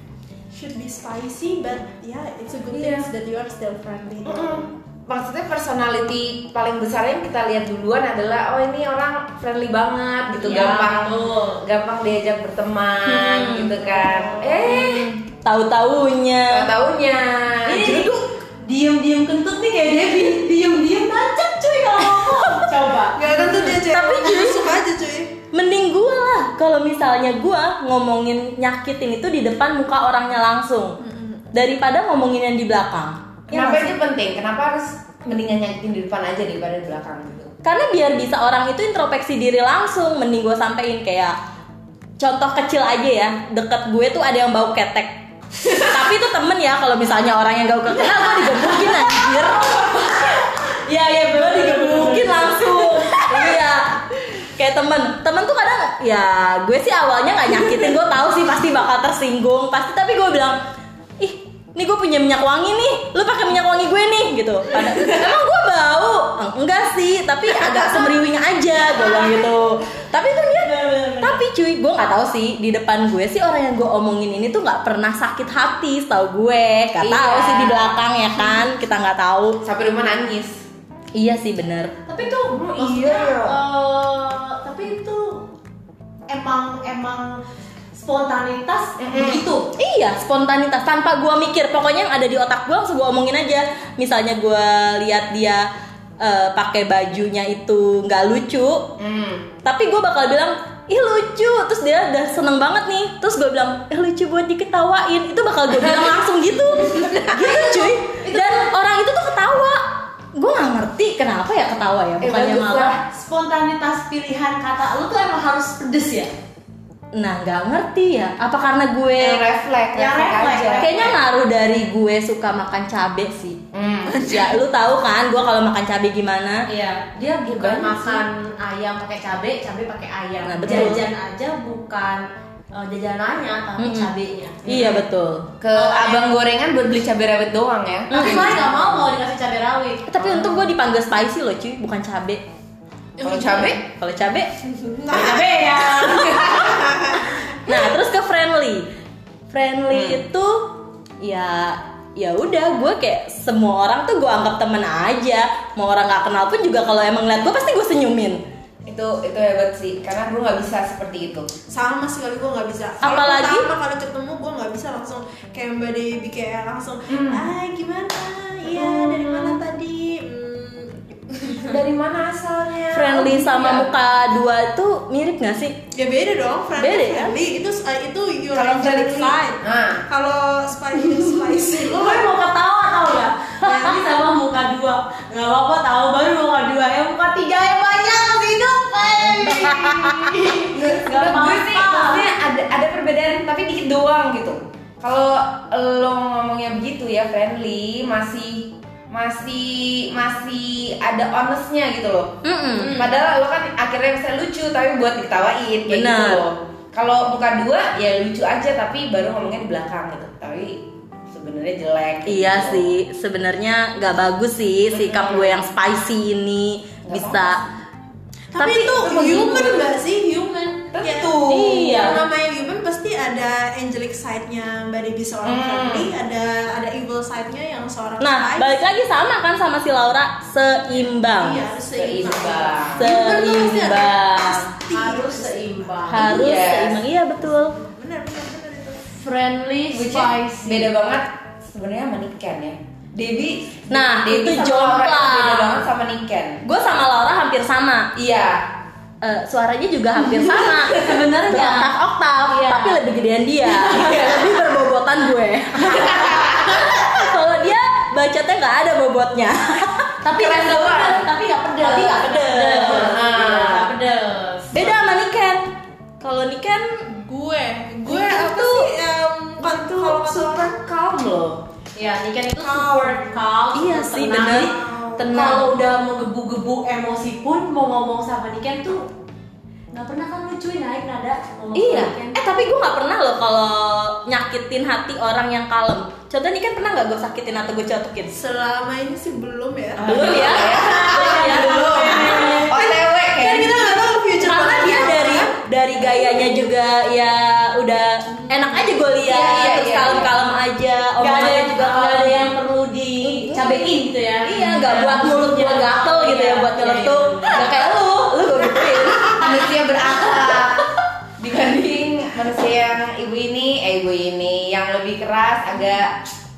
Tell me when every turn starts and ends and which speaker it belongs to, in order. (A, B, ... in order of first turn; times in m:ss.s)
0:00.5-0:04.7 A
0:02.7-0:03.1 B
0:04.2-0:15.1 B
0:10.4-0:11.6 C
0:13.1-0:13.8 D
0:14.6-0:16.7 D
0:16.5-0:18.1 B
0:17.6-0:23.2 C
0:23.2-0:25.3 A
0:23.3-0:24.8 D
0:25.5-0:31.0 D
0:31.0-0:31.4 A
0:31.5-0:34.0 D
0:33.5-0:37.5 B
0:37.6-0:41.4 D
0:42.2-0:45.2 D
0:45.8-0:49.7 D
0:48.2-0:49.0 C
0:49.8-0:52.9 C
0:50.9-1:00.6 D
1:01.2-1:19.6 D
1:07.6-1:07.9 B
1:10.5-1:11.4 C
1:17.0-1:18.7 B
1:19.6-1:20.6 B
1:21.1-1:21.9 D
1:22.1-1:25.5 C
1:22.5-1:23.6 B
1:26.3-1:27.4 C
1:27.9-1:29.7 C
1:29.0-1:29.4 B
1:29.8-1:35.7 D
1:36.2-1:38.9 D
1:39.0-1:39.5 B
1:39.6-1:49.8 D
1:46.8-1:47.9 B
1:48.2-1:48.5 C
1:50.3-1:53.0 D
1:52.2-1:53.0 B
1:53.1-1:56.3 C
1:57.1-1:59.4 D
1:59.2-2:01.1 B
2:00.0-2:01.1 C
2:00.8-2:03.6 D
2:03.7-2:04.4 B
2:04.1-2:06.6 D
2:06.6-2:14.6 C
2:07.5-2:08.2 B
2:10.4-2:11.0 D
2:10.6-2:11.0 B
2:13.8-2:14.1 D
2:14.6-2:15.5 D
2:14.6-2:15.0 B
2:15.6-2:18.9 B
2:15.7-2:16.3 C
2:18.1-2:18.7 D
2:18.1-2:20.1 C
2:20.1-2:22.4 D
2:20.2-2:20.6 B
2:23.2-2:23.8 B
2:23.3-2:23.6 A
2:23.8-2:24.5 D
2:24.9-2:25.4 A
2:25.1-2:26.8 C
2:25.1-2:25.4 B
2:26.0-2:26.9 B
2:26.8-2:27.2 A
2:27.6-2:28.9 D
2:29.5-2:38.4 D
2:29.9-2:30.2 B
2:38.9-2:41.5 B
2:41.7-2:51.8 A
2:43.0-2:43.7 D
2:47.1-2:47.5 B
2:48.7-2:49.6 B
2:51.6-2:53.9 B
2:52.9-2:55.8 D
2:55.9-3:02.3 A
2:56.8-2:57.4 D
2:58.5-3:00.0 B
3:01.7-3:12.2 C
3:03.7-3:04.0 A
3:09.4-3:32.9 B
3:22.4-3:23.1 D
3:25.9-3:26.4 D
3:32.3-3:37.6 D
3:34.9-3:35.6 B
3:37.1-3:37.6 B
3:38.5-3:48.7 A
3:38.6-3:39.8 D
3:39.1-3:39.5 B
3:40.9-3:42.2 B
3:41.4-3:42.2 D
3:45.4-3:46.1 B
3:48.2-3:51.6 D
3:51.3-3:56.7 A
3:52.0-3:53.1 B
3:53.0-3:54.7 D
3:54.9-3:56.4 C
3:56.1-3:57.8 D
3:56.2-3:57.0 B
3:57.4-3:59.0 A
3:59.2-4:00.9 C
3:59.9-4:06.6 B
4:03.9-4:05.8 D
4:06.6-4:08.1 D
4:08.1-4:08.7 B
4:09.2-4:20.1 D
4:10.2-4:11.9 C
4:12.5-4:13.0 C
4:13.6-4:14.6 C
4:15.8-4:16.9 B
4:20.2-4:24.9 C
4:20.3-4:21.3 B
4:21.8-4:23.2 D
4:22.9-4:23.9 B
4:24.7-4:25.6 D
4:26.2-4:26.9 D
4:27.1-4:30.7 A
4:28.1-4:28.9 D
4:29.6-4:31.6 B
4:32.0-4:34.7 C
4:32.6-4:33.4 A
4:33.7-4:35.7 D
4:34.5-4:35.3 A
4:35.3-4:39.1 C
4:39.9-4:42.4 C
4:41.8-4:48.3 D
4:48.3-4:55.5 A
4:50.0-4:52.8 C
4:50.0-4:52.6 D
4:50.1-4:54.1 B
4:54.4-5:02.5 D
4:58.5-4:58.9 A
4:59.2-5:00.4 B
5:01.2-5:07.7 C
5:03.2-5:10.7 D
5:09.3-5:10.9 B
5:11.4-5:16.2 B